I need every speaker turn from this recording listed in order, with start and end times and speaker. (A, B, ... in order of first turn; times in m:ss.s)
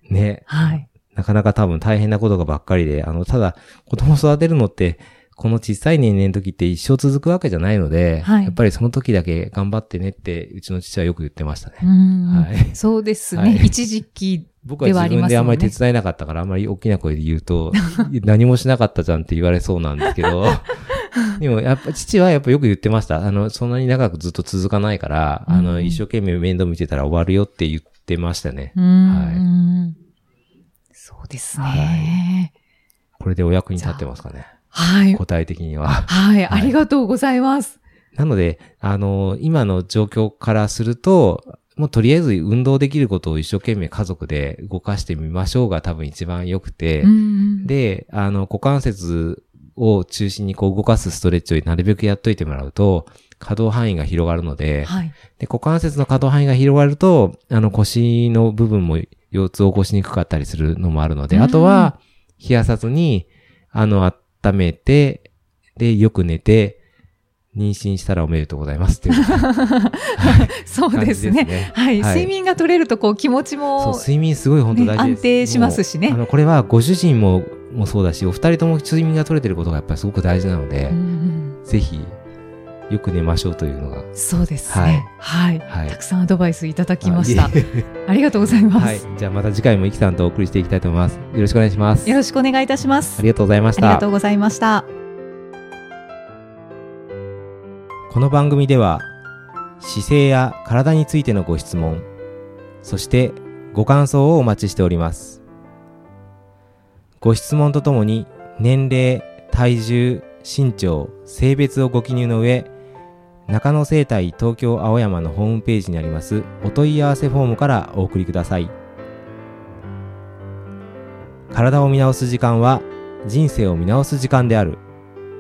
0:00.1-0:12.8 A
0:00.5-0:00.8 B
0:08.2-0:08.6 B
0:11.8-0:15.8 B
0:13.3-0:13.8 A
0:14.6-0:29.5 A
0:17.7-0:18.1 B
0:25.5-0:26.0 B
0:28.8-0:30.0 B
0:31.0-0:32.5 B
0:31.6-0:32.2 A
0:33.2-0:34.5 A
0:33.8-0:34.0 B
0:34.7-0:35.2 B
0:35.1-0:36.8 A
0:36.1-0:37.8 B
0:38.2-1:06.8 A
0:47.0-0:47.7 B
0:54.8-0:55.2 B
1:01.3-1:01.9 B
1:07.5-1:09.5 A
1:09.1-1:14.1 B
1:10.2-1:12.3 A
1:13.8-1:21.0 A
1:14.7-1:16.2 B
1:20.9-1:21.6 B
1:21.6-1:22.2 A
1:22.9-1:24.1 A
1:24.1-1:29.0 B
1:24.7-1:25.1 A
1:25.7-1:26.0 A
1:27.0-1:27.9 A
1:28.7-1:32.2 A
1:32.0-1:33.2 B
1:33.2-1:34.1 A
1:33.8-1:34.9 B
1:38.1-1:39.1 A
1:39.8-1:42.1 A
1:42.8-1:45.4 A
1:47.2-1:52.7 A
1:53.5-1:58.7 A
2:01.5-2:04.8 A